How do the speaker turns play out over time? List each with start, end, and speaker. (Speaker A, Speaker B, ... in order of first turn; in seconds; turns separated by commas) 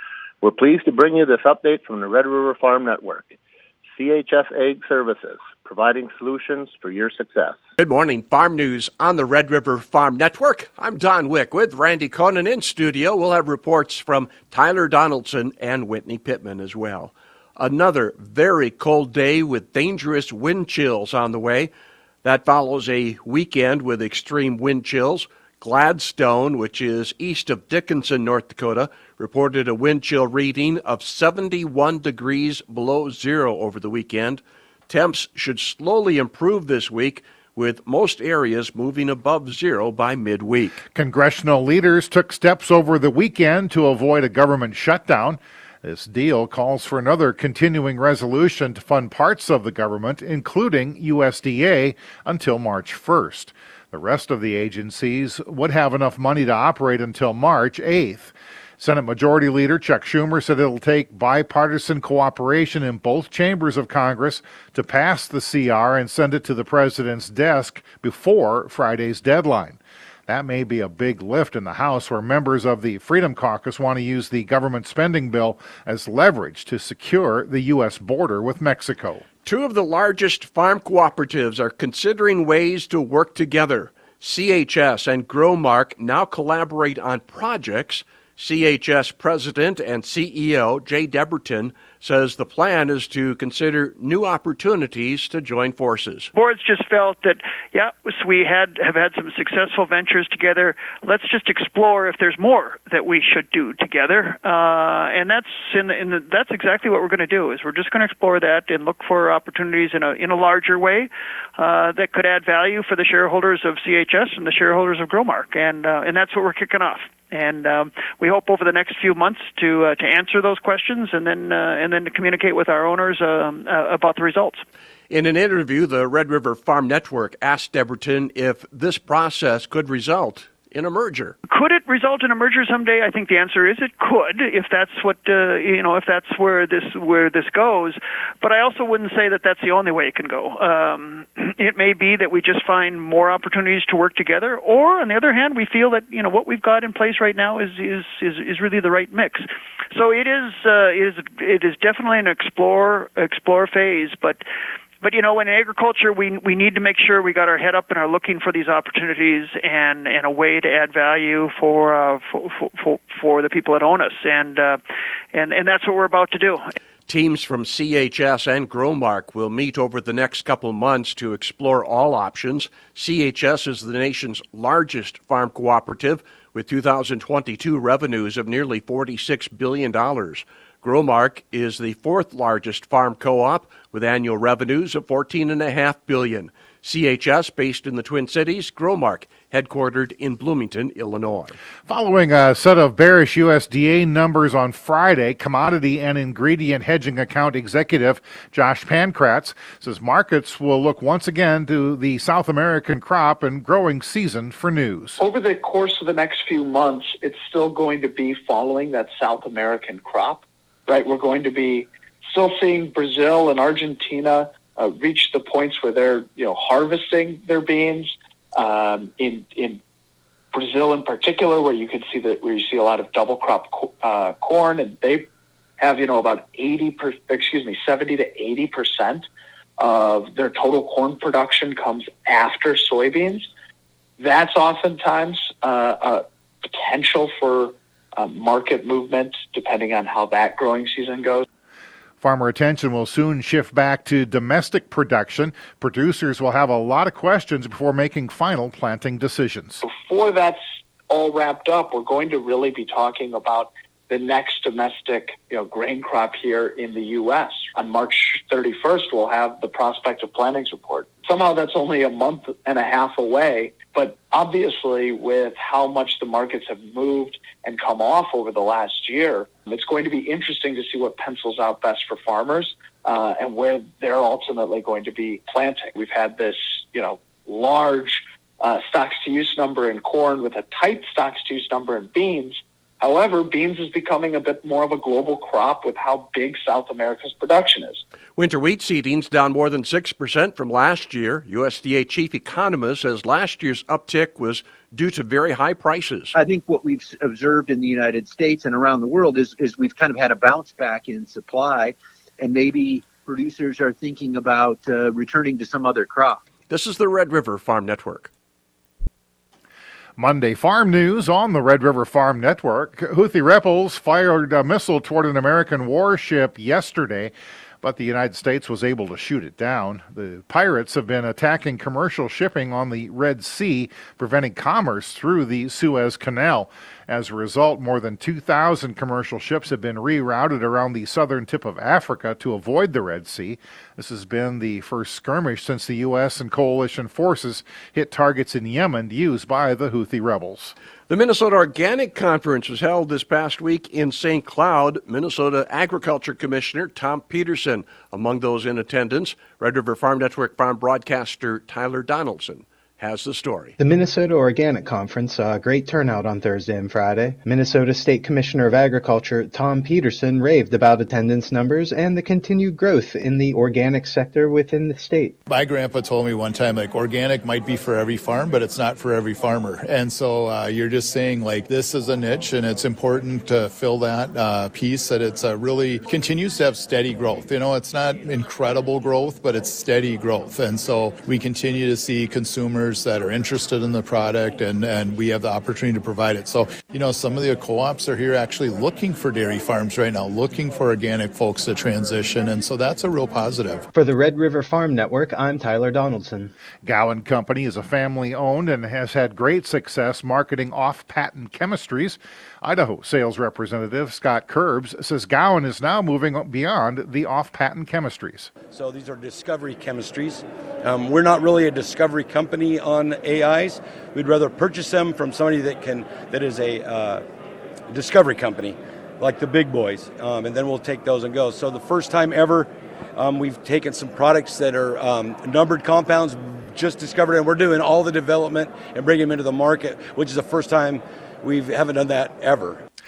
Speaker A: 0.4-3.4, Speaker A: 3.9-7.6, Speaker B: 7.8-21.7, Speaker B: 22.2-40.8, Speaker C: 40.9-79.2, Speaker B: 79.5-96.3, Speaker D: 96.3-124.6, Speaker B: 125.1-131.3, Speaker D: 131.5-154.4, Speaker D: 155.0-164.8, Speaker D: 165.3-166.7, Speaker B: 167.1-191.6, Speaker C: 191.9-205.2, Speaker E: 205.2-219.8, Speaker E: 220.5-225.3, Speaker E: 225.8-229.2, Speaker E: 229.8-233.5, Speaker E: 234.2-241.4, Speaker C: 242.2-249.8, Speaker E: 249.8-288.0, Speaker B: 288.4-296.3, Speaker F: 296.3-306.4, Speaker B: 306.7-308.3, Speaker C: 310.2-340.8, Speaker B: 341.1-353.8, Speaker G: 353.8-365.4, Speaker H: 365.5-393.9, Speaker G: 393.9-396.5, Speaker C: 396.8-408.5, Speaker I: 408.7-417.2, Speaker I: 417.9-432.8